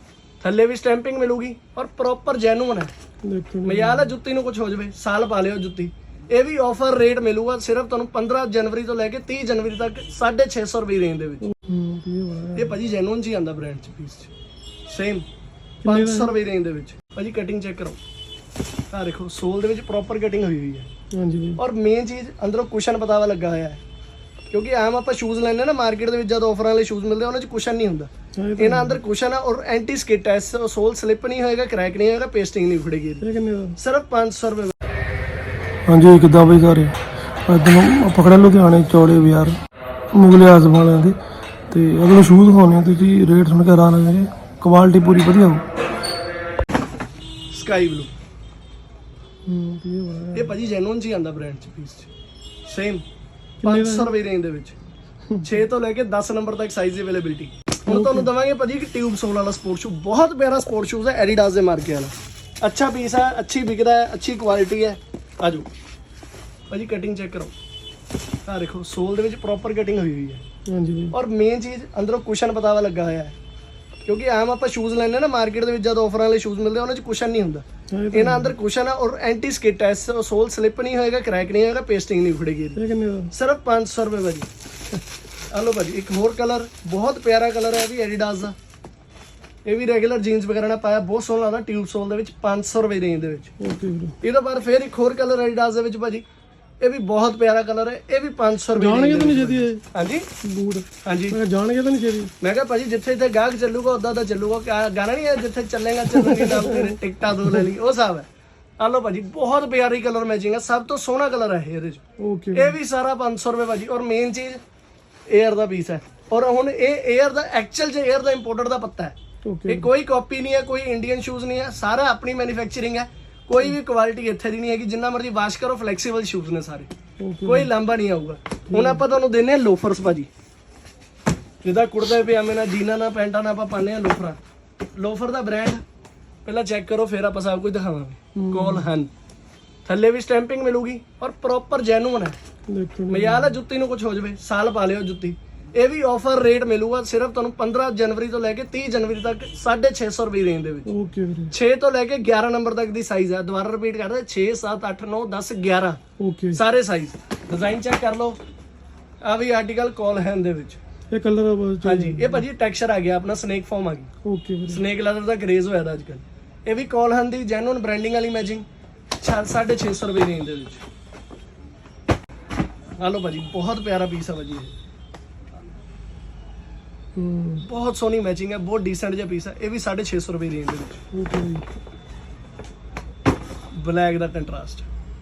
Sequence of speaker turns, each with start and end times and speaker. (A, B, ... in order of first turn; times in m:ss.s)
0:00.4-0:02.9 A
0:03.2-0:04.1 B
0:03.6-0:11.5 A
0:11.4-0:12.8 B
0:12.5-0:14.3 A
0:14.9-0:15.3 A
0:15.8-0:16.3 B
0:15.8-0:18.0 A
0:18.9-0:20.9 A
0:21.1-0:21.6 B
0:21.6-0:23.8 A
0:24.5-0:33.2 A
0:28.4-0:29.0 B
0:33.2-0:33.8 B
0:33.8-0:34.8 A
0:35.9-0:37.0 B
0:37.5-0:39.6 B
0:40.1-0:41.2 B
0:41.7-0:45.6 B
0:47.5-0:48.1 A
0:49.4-0:50.6 B
0:50.3-0:52.1 A
0:52.7-0:53.0 A
0:53.6-0:54.1 B
0:53.6-0:54.8 A
0:55.4-1:05.7 A
0:57.9-0:58.3 B
1:06.7-1:07.5 A
1:08.5-1:10.5 A
1:10.7-1:11.2 B
1:11.1-1:13.4 A
1:14.1-1:22.8 A
1:17.9-1:18.6 B
1:22.8-1:23.3 B
1:23.3-1:24.5 A
1:25.5-1:28.6 A
1:29.7-1:33.5 A
1:33.6-1:34.2 B
1:34.2-1:36.2 A
1:36.8-1:40.3 A
1:38.7-1:39.8 B
1:40.4-1:42.3 B
1:41.0-1:41.4 A
1:42.4-1:48.3 A
1:46.1-1:47.6 B
1:48.8-1:52.0 A
1:52.2-1:52.8 B
1:52.5-1:54.6 A
1:55.3-1:59.2 A
1:59.4-1:59.9 B
1:59.7-2:06.9 A
2:07.2-2:07.7 B
2:07.5-2:10.3 A
2:08.7-2:09.0 B
2:11.6-2:14.4 A
2:15.0-2:15.8 A
2:16.4-2:19.1 A
2:18.4-2:18.9 B
2:19.9-2:22.4 A
2:22.7-2:23.5 B
2:23.1-2:30.9 A
2:30.9-2:31.5 B
2:31.5-2:36.0 A
2:36.2-2:36.6 B
2:36.5-2:38.4 A
2:39.2-2:40.8 A
2:41.1-2:42.4 B
2:41.8-2:44.1 A
2:44.2-2:44.8 B
2:44.7-2:48.6 A
2:49.2-2:50.8 A
2:53.0-2:54.8 A
2:57.2-2:57.7 B
2:57.6-3:01.0 A
3:01.1-3:01.7 B
3:03.8-3:04.9 A